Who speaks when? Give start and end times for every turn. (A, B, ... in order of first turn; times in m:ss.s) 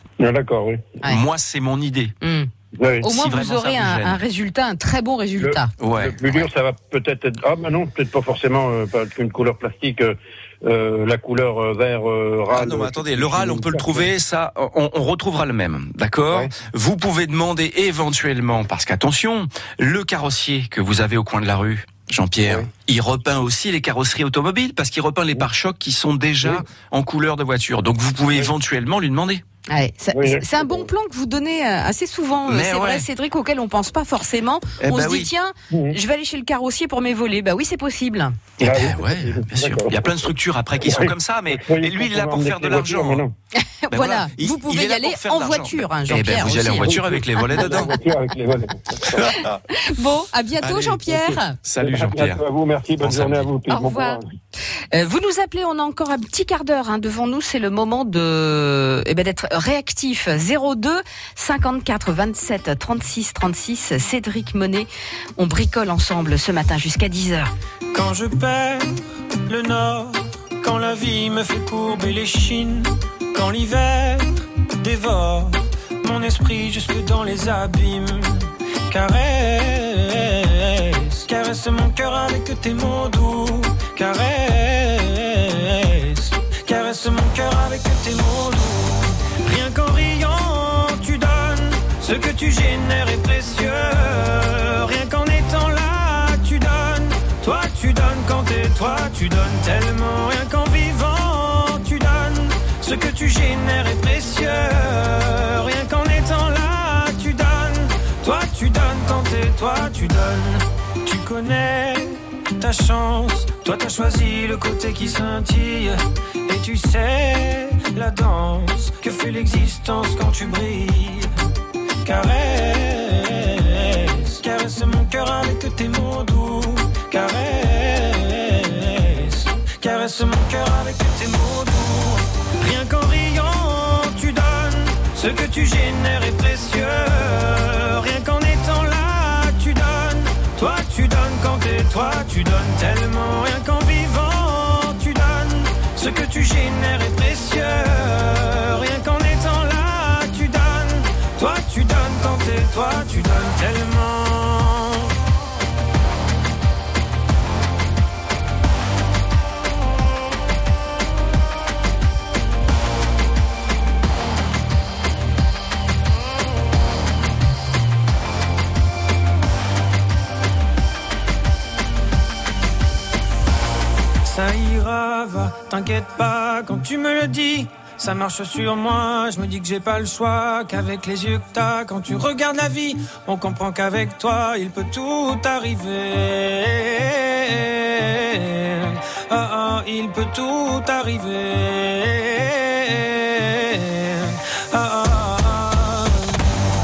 0:00.2-0:01.0 A
0:01.0-0:02.1 B
0:02.2-0:02.5 C
0:02.8-0:03.0 A
0:03.0-0:05.7 C
0:03.0-0:04.2 B
0:05.4-0:14.1 A
0:05.8-0:06.5 B
0:12.5-0:29.4 B
0:29.7-0:38.4 C
0:30.1-0:30.9 A
0:32.4-0:33.0 B
0:34.8-0:35.3 B
0:35.7-0:36.0 A
0:38.6-0:43.2 B
0:38.6-0:40.3 A
0:40.8-0:43.3 A
0:43.8-0:47.8 C
0:43.9-0:47.9 B
0:46.8-0:49.2 A
0:49.1-0:49.5 B
0:49.8-0:51.5 C
0:50.6-0:52.4 B
0:51.8-0:54.2 A
0:53.0-0:53.5 B
0:53.7-0:54.2 C
0:54.9-1:07.5 C
1:07.9-2:01.3 D
2:02.0-2:35.1 D
2:54.2-3:16.4 D